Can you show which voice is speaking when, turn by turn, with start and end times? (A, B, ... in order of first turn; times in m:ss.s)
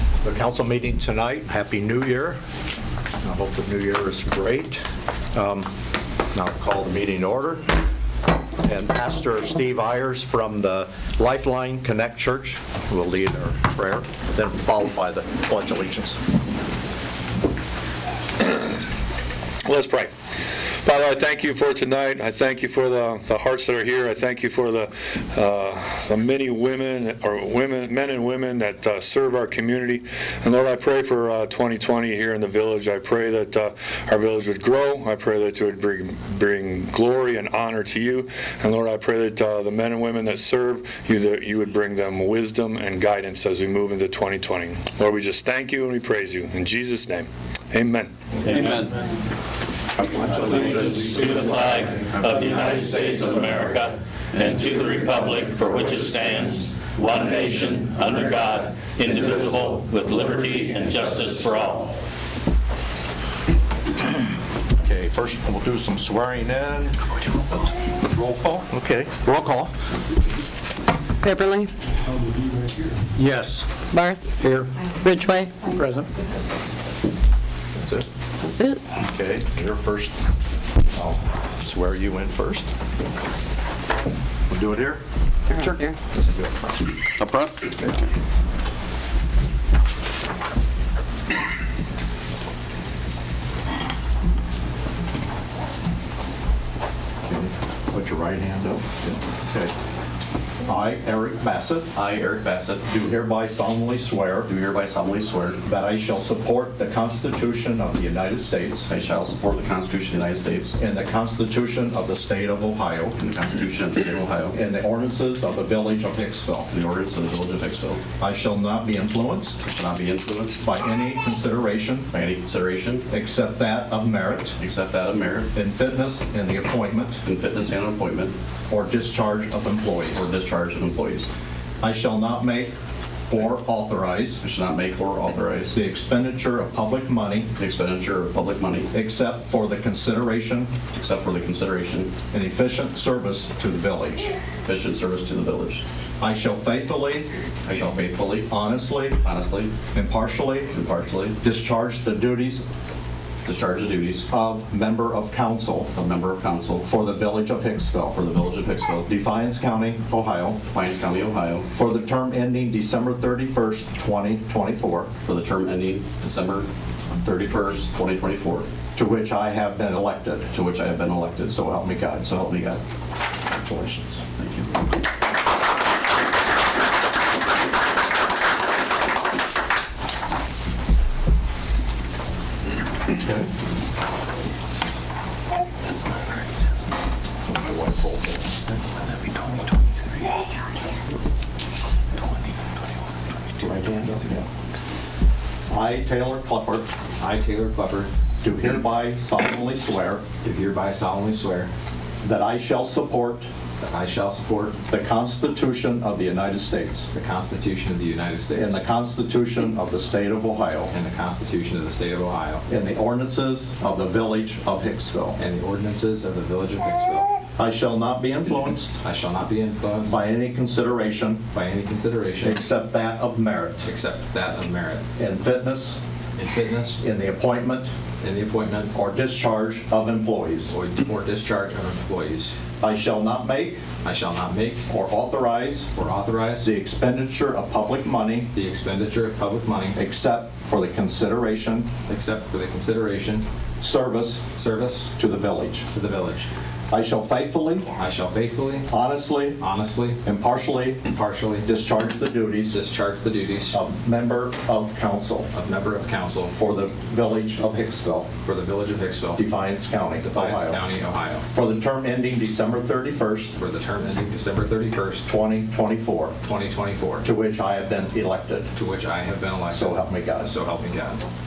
0:00.2-0:02.4 A
0:03.2-0:05.7 A
0:06.3-0:07.7 A
0:08.6-0:16.2 A
0:19.6-0:20.1 B
0:20.8-0:48.1 B
0:48.4-0:48.9 C
0:48.5-0:48.7 D
0:50.2-0:51.4 C
0:50.3-1:01.9 D
0:52.4-0:52.8 C
1:04.8-1:09.7 A
1:11.2-1:11.7 E
1:13.9-1:14.2 E
1:14.9-1:15.6 E
1:17.8-1:18.0 A
1:18.4-1:18.8 E
1:19.0-1:20.1 A
1:20.9-1:22.7 A
1:24.5-1:26.9 A
1:27.2-1:28.1 C
1:37.2-1:39.7 A
1:40.6-1:41.9 A
1:41.9-1:42.9 C
1:42.8-1:44.6 A
1:44.5-1:45.6 C
1:45.6-1:48.9 A
1:48.9-1:50.8 C
1:50.7-1:53.2 A
1:53.2-1:54.6 C
1:54.5-1:56.7 A
1:56.7-1:58.0 C
1:58.2-1:59.6 A
1:59.6-2:00.6 C
2:00.6-2:02.1 A
2:02.1-2:03.1 C
2:03.1-2:04.6 A
2:04.6-2:05.5 C
2:05.5-2:07.2 A
2:07.2-2:08.4 C
2:08.7-2:10.2 A
2:10.1-2:11.3 C
2:11.8-2:12.7 A
2:13.3-2:14.4 A
2:14.4-2:15.8 C
2:15.7-2:17.5 A
2:17.6-2:18.9 C
2:18.9-2:20.7 A
2:20.9-2:22.1 C
2:22.3-2:24.4 A
2:24.6-2:25.8 C
2:26.2-2:27.3 A
2:27.6-2:28.5 C
2:28.4-2:29.2 A
2:29.2-2:29.7 C
2:29.9-2:30.8 A
2:30.7-2:31.4 C
2:31.4-2:32.6 A
2:33.4-2:34.3 C
2:34.3-2:35.9 A
2:35.9-2:36.9 C
2:36.8-2:38.2 A
2:38.1-2:39.0 C
2:39.0-2:40.6 A
2:40.7-2:41.7 C
2:41.7-2:45.1 A
2:45.2-2:46.7 C
2:47.2-2:47.8 A
2:47.5-2:48.7 C
2:48.9-2:50.5 A
2:50.5-2:51.6 C
2:51.4-2:52.8 A
2:52.3-2:52.8 C
2:53.5-2:54.2 A
2:54.4-2:54.7 C
3:07.5-3:08.7 A
3:13.6-3:14.4 F
3:13.6-3:14.5 A
3:15.7-3:16.9 A
3:17.2-3:18.1 F
3:18.4-3:20.2 A
3:20.4-3:21.7 F
3:22.2-3:23.5 A
3:23.8-3:24.8 F
3:24.9-3:27.1 A
3:27.1-3:28.8 F
3:28.5-3:30.9 A
3:30.9-3:32.6 F
3:32.7-3:35.4 A
3:35.4-3:37.3 F
3:37.6-3:39.0 A
3:39.0-3:40.2 F
3:40.0-3:41.4 A
3:41.5-3:42.6 F
3:42.4-3:43.9 A
3:43.8-3:45.0 F
3:45.2-3:46.0 A
3:46.4-3:47.0 F
3:47.0-3:47.9 A
3:48.2-3:48.9 F
3:48.9-3:50.7 A
3:50.7-3:52.5 F
3:52.8-3:53.8 A
3:54.0-3:54.8 F
3:54.9-3:55.9 A
3:55.9-3:56.6 F
3:56.6-3:58.5 A
3:58.5-4:00.0 F
3:59.9-4:01.9 A
4:02.1-4:03.4 F
4:03.8-4:04.4 A
4:04.5-4:05.1 F
4:05.2-4:05.9 A
4:05.9-4:06.5 F
4:06.9-4:07.9 A
4:07.9-4:08.9 F
4:08.9-4:09.6 A
4:09.6-4:10.2 F
4:10.2-4:11.0 A
4:11.1-4:11.7 F
4:11.6-4:12.8 A
4:12.7-4:13.8 F
4:13.7-4:15.5 A
4:15.5-4:16.5 F
4:16.5-4:18.3 A
4:18.4-4:19.4 F
4:19.4-4:20.8 A
4:20.2-4:21.4 F
4:21.5-4:23.5 A
4:23.6-4:25.3 F
4:25.2-4:26.4 A
4:26.4-4:27.3 F
4:27.2-4:28.7 A
4:28.7-4:31.2 F
4:29.7-4:30.5 A